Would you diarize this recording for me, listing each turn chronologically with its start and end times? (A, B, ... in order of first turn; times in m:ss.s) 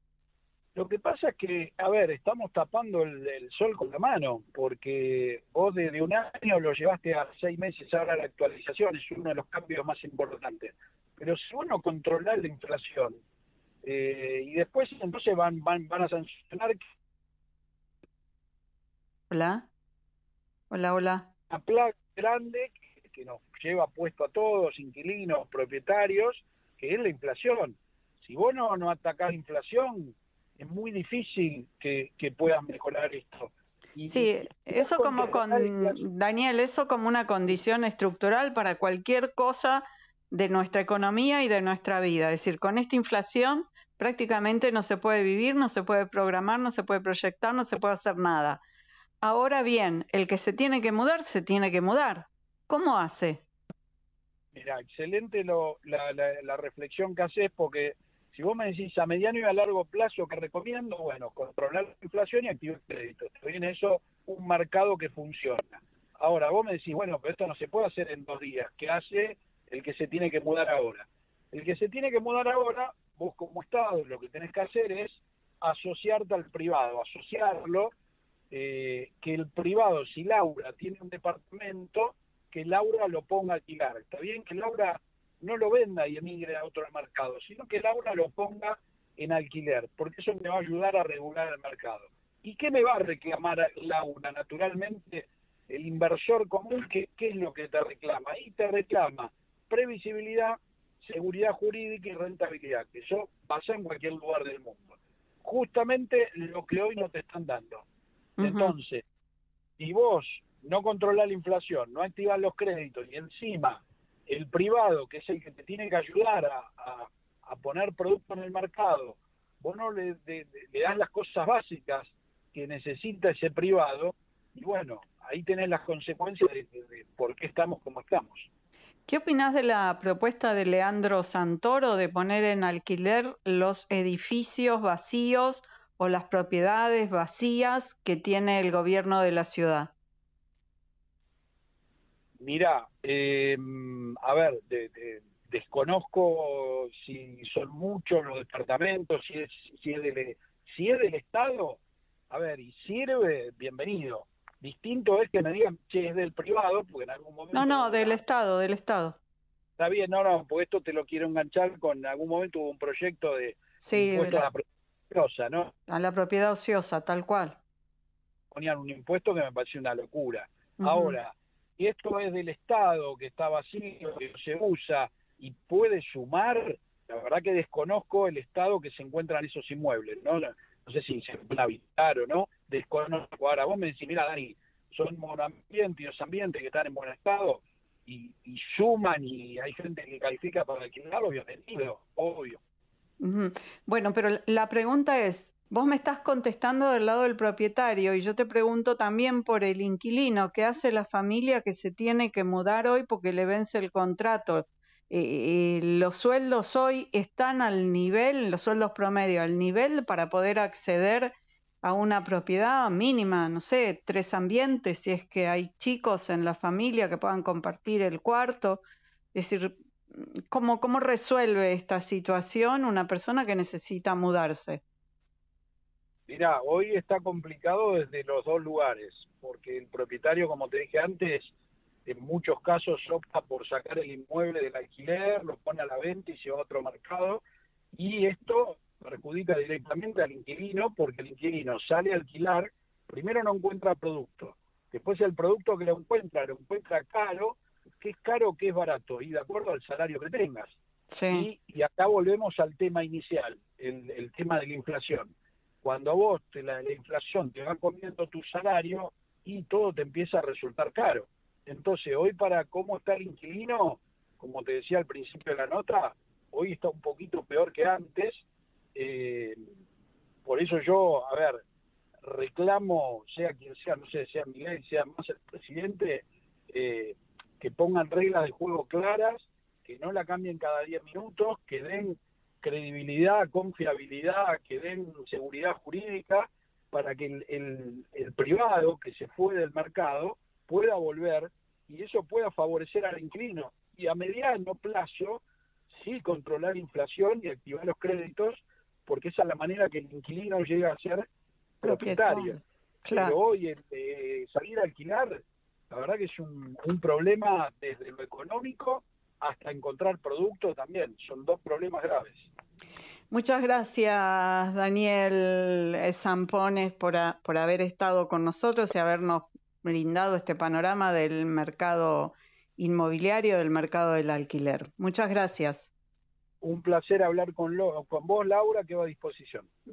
0:00.8-0:13.2 A
0:13.8-0:16.8 A
0:19.3-0:19.7 B
0:20.7-0:21.3 B
0:21.5-0:36.0 A
0:34.1-0:48.6 B
0:49.2-0:53.4 B
0:54.5-1:17.9 A
1:18.5-1:47.8 A
1:48.4-1:48.8 B
1:48.4-1:49.0 A
1:49.8-2:08.5 A
2:09.1-2:19.9 B
2:22.4-2:38.2 A
2:37.5-2:39.2 B
2:39.8-2:45.7 A
2:43.8-2:44.5 B
2:45.9-2:47.6 B
2:48.5-3:12.6 A
2:50.8-2:51.2 B
3:13.2-3:31.3 B
3:31.8-3:38.8 B
3:39.3-3:44.8 B
3:46.3-3:51.5 A
3:52.1-3:57.4 A
3:57.9-4:10.8 A
4:11.1-4:11.5 B
4:11.3-4:29.6 A
4:30.4-4:31.6 A
4:32.2-5:01.2 A
5:01.8-5:02.6 A
5:01.8-5:03.4 B
5:03.1-5:05.4 A
5:05.9-5:12.5 A
5:13.3-5:25.9 B
5:26.6-5:29.7 A